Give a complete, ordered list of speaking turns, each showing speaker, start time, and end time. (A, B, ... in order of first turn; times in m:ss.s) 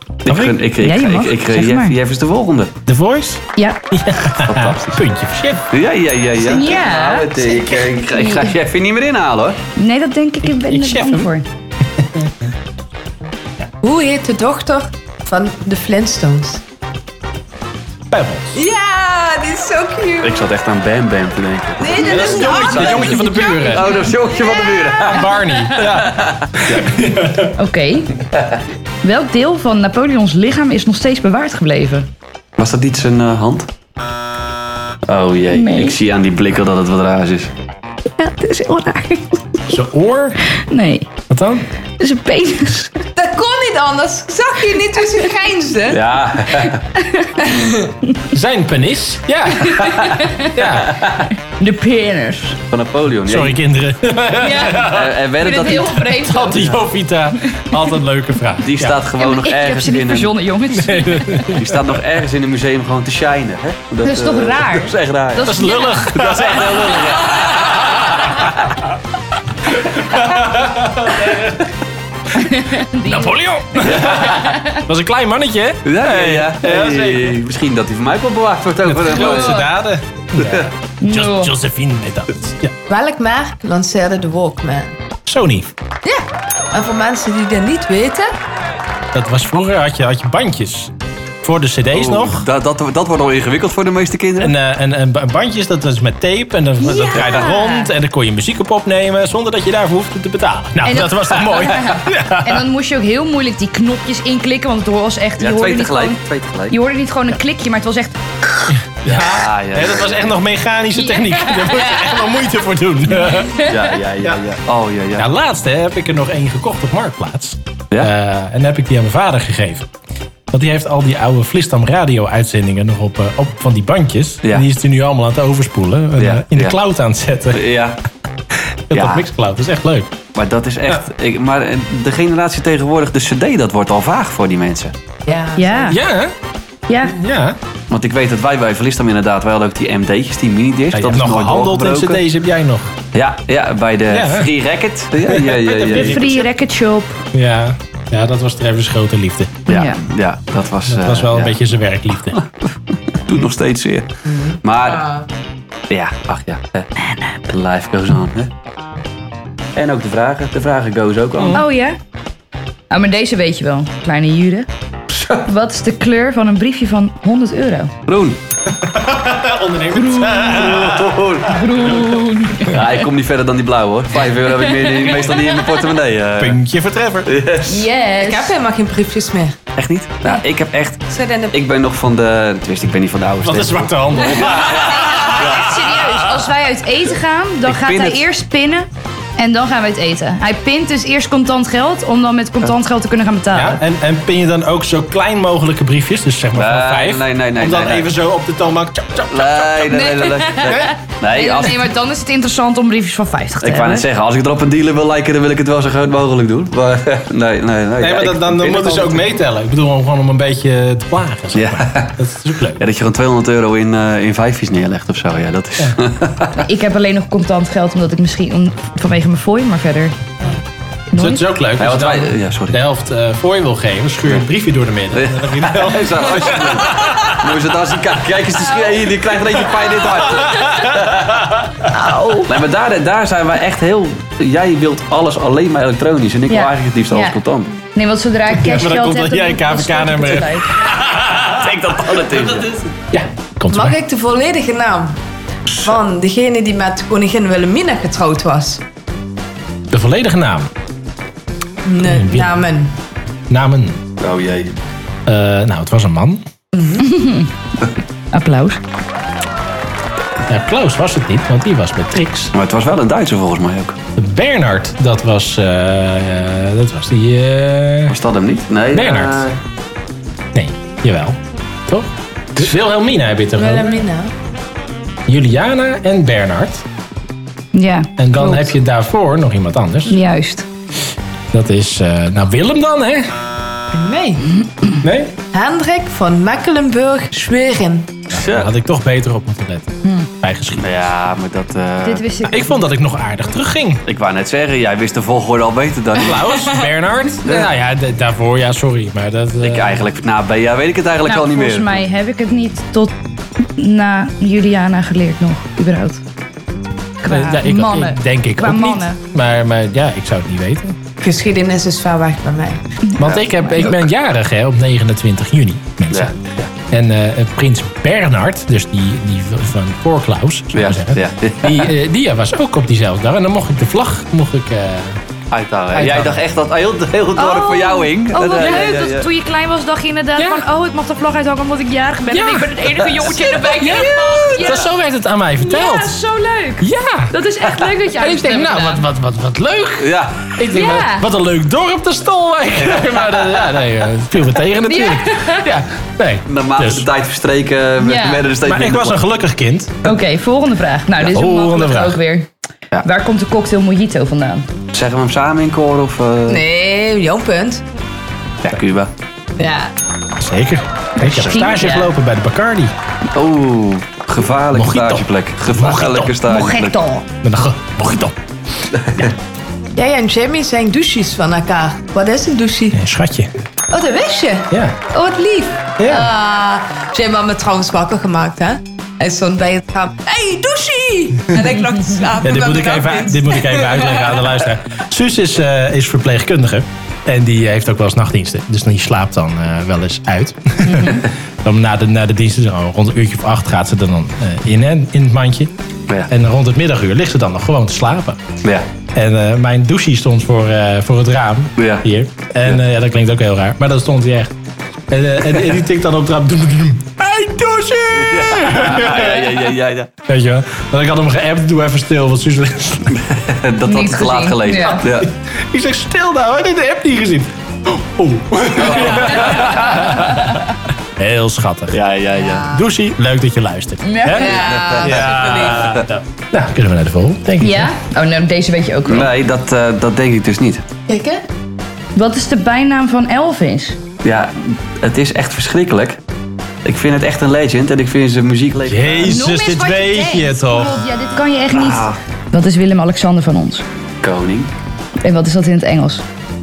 0:00.2-0:02.7 A
0:00.3-0:00.6 B
0:00.8-0:02.0 C
0:02.9-0:05.7 B
0:04.4-0:05.0 A
0:05.7-0:09.6 A
0:06.4-0:08.5 C
0:09.8-0:11.5 C
0:10.4-0:11.3 B
0:12.0-0:12.3 B
0:13.8-0:16.6 D
0:18.1-0:18.6 B
0:18.5-0:20.5 D
0:20.2-0:27.0 A
0:21.8-0:25.2 D
0:22.0-0:24.0 B
0:23.2-0:24.0 C
0:25.0-0:27.6 B
0:27.6-0:28.2 C
0:29.0-0:32.1 C
0:32.6-0:33.7 A
0:35.1-0:37.5 A
0:35.5-0:36.0 C
0:38.2-0:39.2 D
0:38.2-0:38.9 C
0:39.7-0:40.4 B
0:40.5-0:41.1 C
0:41.3-0:41.6 B
0:42.0-0:42.9 C
0:43.1-0:46.0 D
0:45.9-0:46.8 A
0:47.0-0:47.5 C
0:47.4-0:47.7 D
0:48.3-0:51.0 B
0:49.8-0:50.6 C
0:50.8-0:51.3 A
0:51.5-0:52.6 C
0:52.7-0:53.6 A
0:53.3-0:55.2 B
0:54.4-0:56.7 C
0:54.8-0:56.0 A
0:55.8-0:59.0 B
0:57.5-0:57.9 C
0:58.6-1:00.4 A
0:59.2-1:01.6 C
1:00.7-1:01.8 B
1:01.5-1:05.6 A
1:04.0-1:06.1 C
1:05.4-1:08.4 B
1:06.1-1:08.8 A
1:09.7-1:11.6 B
1:12.4-1:14.8 C
1:13.0-1:17.4 B
1:13.8-1:14.5 A
1:15.8-1:19.7 A
1:18.8-1:22.7 B
1:20.4-1:20.7 A
1:21.0-1:21.5 C
1:22.9-1:25.0 D
1:25.3-1:25.7 B
1:26.0-1:28.3 D
1:29.1-1:30.9 B
1:31.4-1:32.5 B
1:31.9-1:34.6 A
1:34.4-1:42.7 B
1:36.8-1:37.9 C
1:37.2-1:37.4 A
1:40.8-1:48.2 C
1:45.4-1:46.8 A
1:48.7-1:53.7 B
1:49.0-1:50.4 A
1:51.0-1:52.2 C
1:53.2-1:53.7 C
1:53.6-1:55.3 A
1:55.2-1:59.9 B
2:00.5-2:07.6 B
2:06.2-2:06.8 A
2:07.5-2:08.0 A
2:08.9-2:10.1 B
2:08.9-2:09.2 A
2:10.4-2:14.9 A
2:15.3-2:16.0 D
2:15.6-2:16.0 C
2:15.9-2:16.3 B
2:16.9-2:17.2 C
2:17.0-2:17.6 B
2:17.9-2:22.2 A
2:20.9-2:23.0 B
2:23.1-2:26.3 A
2:24.1-2:24.5 B
2:25.2-2:26.5 B
2:25.9-2:27.2 C
2:27.3-2:29.6 B
2:29.7-2:30.0 C
2:29.7-2:31.6 A
2:30.9-2:32.4 B
2:32.3-2:34.1 A
2:34.3-2:35.3 D
2:34.6-2:35.1 A
2:35.9-2:36.9 A
2:37.0-2:37.4 C
2:37.5-2:38.5 A
2:39.8-2:41.6 A
2:41.5-2:42.0 C
2:42.9-2:44.7 C
2:45.1-2:45.4 A
2:45.4-2:47.9 C
2:48.1-2:48.4 A
2:48.7-2:52.2 B
2:50.0-2:50.7 C
2:50.1-2:52.0 A
2:51.4-2:53.0 C
2:52.6-2:56.6 A
2:54.7-2:55.4 C
2:56.4-2:57.3 B
2:57.2-2:57.9 A
2:57.6-2:58.5 C
2:58.2-2:59.6 D
2:59.8-3:05.7 A
3:01.1-3:01.6 D
3:03.4-3:06.5 B
3:05.0-3:13.8 C
3:07.6-3:08.2 A
3:13.5-3:19.9 B
3:16.6-3:18.1 A
3:19.3-3:21.9 A
3:19.9-3:24.1 C
3:23.6-3:29.2 A
3:28.0-3:32.8 B
3:31.5-3:32.2 A
3:32.8-3:36.6 A
3:36.6-3:40.1 C
3:41.1-3:41.5 C
3:41.1-3:47.4 B
3:41.8-3:42.8 A
3:45.1-3:51.4 A
3:50.1-3:51.7 B
3:51.9-3:52.6 C
3:52.5-3:57.7 A
3:56.5-3:57.4 C
3:58.0-4:00.7 C
3:58.5-4:04.0 B
4:01.2-4:02.8 A
4:03.7-4:05.2 D
4:05.7-4:06.0 A
4:05.8-4:08.8 D
4:09.9-4:10.7 B
4:11.8-4:13.0 D
4:12.0-4:12.6 B
4:13.5-4:14.0 B
4:14.2-4:14.7 A
4:15.3-4:16.4 B
4:16.7-4:17.1 D
4:17.0-4:17.5 C
4:18.3-4:18.8 C
4:20.5-4:22.5 B
4:22.5-4:24.0 A
4:24.2-4:28.2 B
4:28.1-4:29.6 A
4:28.9-4:29.5 B
4:30.5-4:34.0 B
4:33.6-4:34.3 D
4:35.3-4:36.8 B
4:37.7-4:38.7 C
4:38.2-4:40.2 B
4:40.1-4:40.7 C
4:41.5-4:43.3 B
4:43.9-4:44.5 D
4:45.0-4:45.3 B
4:45.5-4:48.1 D
4:48.3-4:51.1 B
4:48.3-4:48.7 A
4:50.8-4:52.3 A
4:52.0-4:52.9 C
4:52.5-4:54.0 B
4:54.1-4:56.7 A
4:56.2-5:00.1 B
4:57.4-4:57.7 A
4:59.6-5:02.0 A
5:01.3-5:06.2 C
5:07.2-5:09.2 C
5:07.3-5:11.0 B
5:11.2-5:12.8 D
5:13.0-5:13.9 C
5:13.2-5:25.2 B
5:16.1-5:16.5 A
5:20.7-5:21.9 A
5:25.5-5:29.3 A
5:25.9-5:26.4 B
5:27.4-5:34.9 C
5:30.4-5:30.6 B
5:32.3-5:32.8 B
5:33.0-5:34.8 A
5:33.7-5:36.2 B
5:35.6-5:39.0 C
5:36.8-5:37.3 B
5:38.1-5:47.1 B
5:40.0-5:40.5 A
5:40.7-5:41.3 C
5:44.8-5:45.7 C
5:46.5-5:49.2 A
5:48.0-5:48.4 C
5:48.6-5:50.0 B
5:50.0-5:52.5 C
5:51.2-5:52.2 B
5:53.0-5:54.7 C
5:54.9-5:56.6 A
5:56.5-5:57.8 D
5:58.6-5:59.1 A
5:59.6-5:59.9 D
6:00.4-6:02.9 B
6:01.2-6:02.1 C
6:03.3-6:07.0 A
6:04.7-6:06.4 B
6:06.5-6:07.2 C
6:07.4-6:08.4 B
6:09.0-6:09.3 A
6:10.0-6:13.0 D
6:12.9-6:13.6 B
6:13.9-6:24.4 D
6:14.7-6:15.0 B
6:16.0-6:16.3 B
6:22.4-6:35.7 B
6:36.3-6:38.4 B
6:39.2-6:44.5 B
6:41.8-6:42.1 A
6:45.1-6:49.6 B
6:48.2-6:50.1 A
6:50.3-6:53.2 B
6:53.2-6:55.3 A
6:53.9-6:55.0 C
6:54.8-7:00.6 B
6:58.8-7:00.2 A
7:00.0-7:00.6 C
7:01.2-7:02.0 B
7:01.9-7:02.7 A
7:02.4-7:02.8 D
7:02.7-7:07.9 B
7:04.0-7:04.6 C
7:04.3-7:05.9 D
7:04.4-7:06.1 A
7:07.6-7:09.3 C
7:09.1-7:10.8 A
7:11.1-7:11.4 D
7:12.2-7:14.0 C
7:14.2-7:16.2 A
7:16.8-7:19.4 A
7:18.9-7:21.0 B
7:19.2-7:23.8 C
7:21.7-7:22.2 A
7:24.2-7:24.7 A
7:25.2-7:26.2 C